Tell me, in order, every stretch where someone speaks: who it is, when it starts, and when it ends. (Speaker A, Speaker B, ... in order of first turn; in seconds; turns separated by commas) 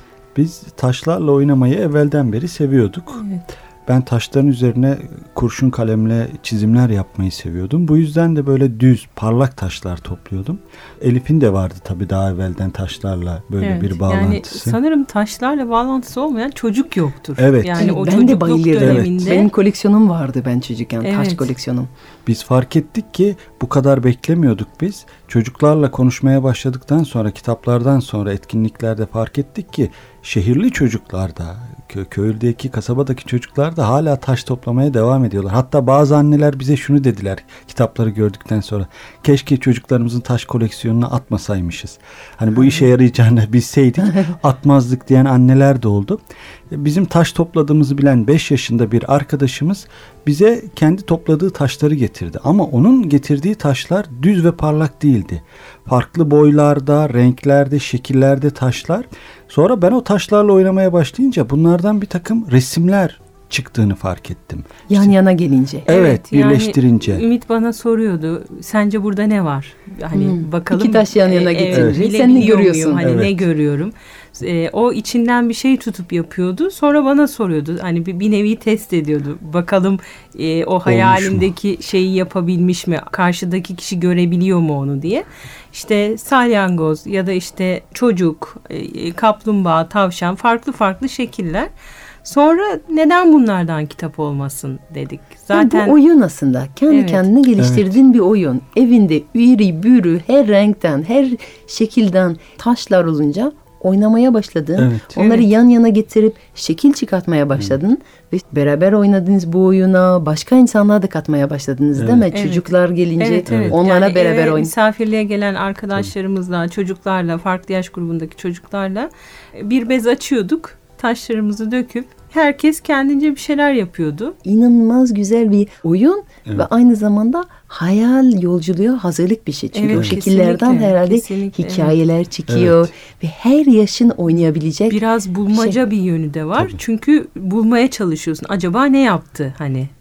Speaker A: 0.3-3.2, Speaker B: 3.2-3.5, Speaker A: 3.9-14.8, Speaker B: 13.6-19.5, Speaker A: 17.4-17.9, Speaker C: 17.8-21.9, Speaker A: 18.8-19.2, Speaker B: 21.0-21.5, Speaker A: 22.2-65.1, Speaker C: 64.9-65.9, Speaker A: 65.8-67.2, Speaker B: 65.9-91.7, Speaker C: 70.1-73.0, Speaker A: 71.7-72.0, Speaker A: 73.0-73.4, Speaker A: 80.8-81.5, Speaker B: 92.2-96.0, Speaker C: 95.5-114.7, Speaker B: 96.9-97.3, Speaker A: 97.6-97.9, Speaker A: 104.8-105.1, Speaker B: 105.2-105.5, Speaker A: 112.0-112.3, Speaker B: 112.3-112.7, Speaker B: 113.2-124.3, Speaker A: 113.5-113.8, Speaker C: 124.4-135.0, Speaker B: 129.7-132.0, Speaker A: 132.5-132.9, Speaker B: 134.9-139.9, Speaker C: 135.5-135.8